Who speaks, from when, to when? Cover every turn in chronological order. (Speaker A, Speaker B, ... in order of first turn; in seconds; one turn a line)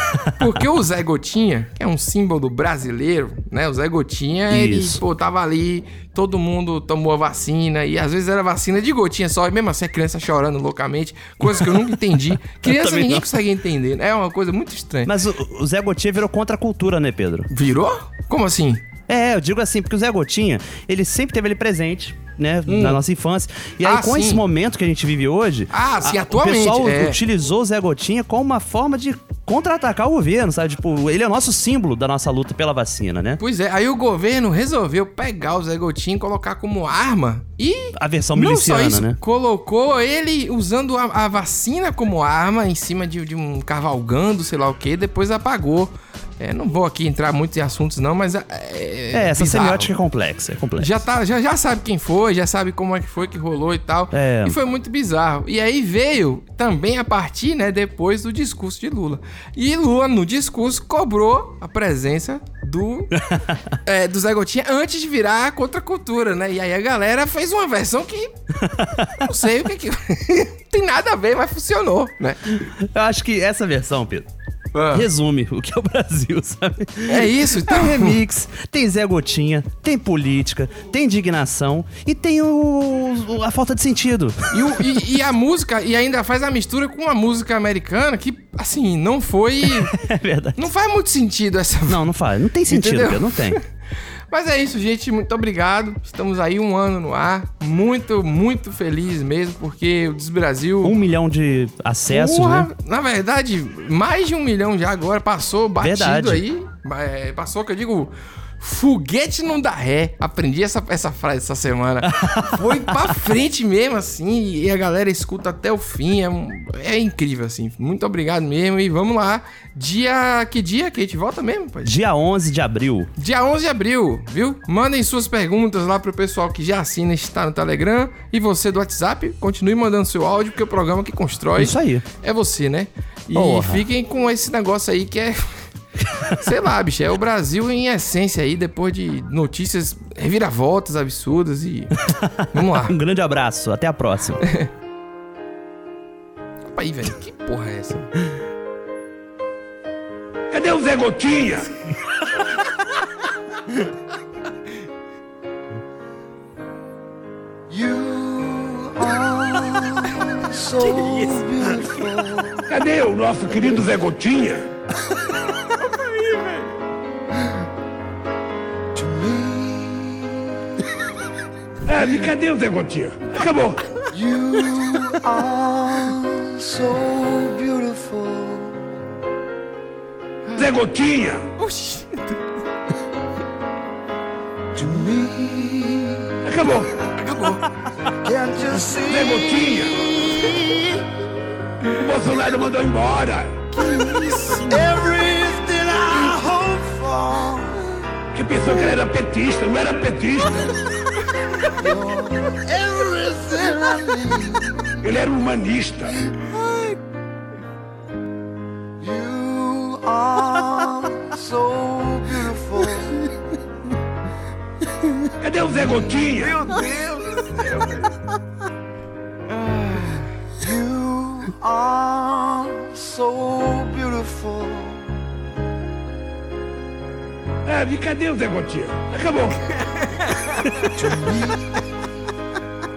Speaker A: 0.1-0.5
Speaker B: 0.4-15.1
Speaker A: 4.5-5.0
Speaker A: 11.4-13.2
Speaker A: 15.1-17.5
Speaker B: 17.5-18.8
Speaker A: 19.1-33.4
Speaker B: 22.7-23.0
Speaker B: 23.8-24.4
Speaker B: 25.7-27.2
Speaker B: 33.4-49.9
Speaker A: 38.0-39.2
Speaker A: 49.1-50.9
Speaker B: 50.8-63.1
Speaker A: 54.1-54.5
Speaker B: 63.8-68.3
Speaker A: 68.8-69.1
Speaker B: 69.2-72.4
Speaker A: 72.6-74.2
Speaker B: 74.7-75.1
Speaker A: 74.9-84.8
Speaker B: 77.1-78.2
Speaker B: 84.5-89.9
Speaker A: 89.9-90.7
Speaker B: 90.6-92.0
Speaker A: 91.9-93.6
Speaker B: 92.7-93.6
Speaker B: 94.3-100.9
Speaker A: 100.8-102.7
Speaker B: 102.1-121.9
Speaker A: 105.8-106.4
Speaker A: 112.1-112.8
Speaker A: 121.8-123.1
Speaker B: 123.2-135.6
Speaker A: 131.6-132.0
Speaker A: 133.3-133.8
Speaker B: 136.3-141.9
Speaker B: 142.5-142.9
Speaker A: 142.9-144.4
Speaker B: 144.4-144.7
Speaker B: 146.7-148.1
Speaker C: 150.5-151.7
Speaker D: 157.7-162.6
Speaker B: 160.8-161.4
Speaker C: 162.7-164.6
Speaker B: 165.7-166.7
Speaker D: 168.9-170.5
Speaker C: 171.9-173.8
Speaker D: 174.1-178.8
Speaker B: 180.4-180.8
Speaker C: 180.6-181.4
Speaker B: 181.6-182.4
Speaker D: 184.8-186.3
Speaker C: 186.4-186.9
Speaker B: 187.1-187.6
Speaker D: 188.2-191.1
Speaker C: 189.1-190.0
Speaker C: 192.0-193.6
Speaker D: 193.7-197.9
Speaker B: 194.1-194.8
Speaker C: 198.3-200.7
Speaker D: 198.6-199.0
Speaker D: 201.8-204.9
Speaker C: 205.0-206.1
Speaker D: 206.4-206.9
Speaker D: 209.0-213.3
Speaker C: 215.4-216.7
Speaker D: 215.8-218.0
Speaker C: 217.7-218.0
Speaker B: 219.5-220.3
Speaker D: 219.5-225.1
Speaker C: 227.7-229.6
Speaker B: 229.7-230.9
Speaker D: 230.9-231.8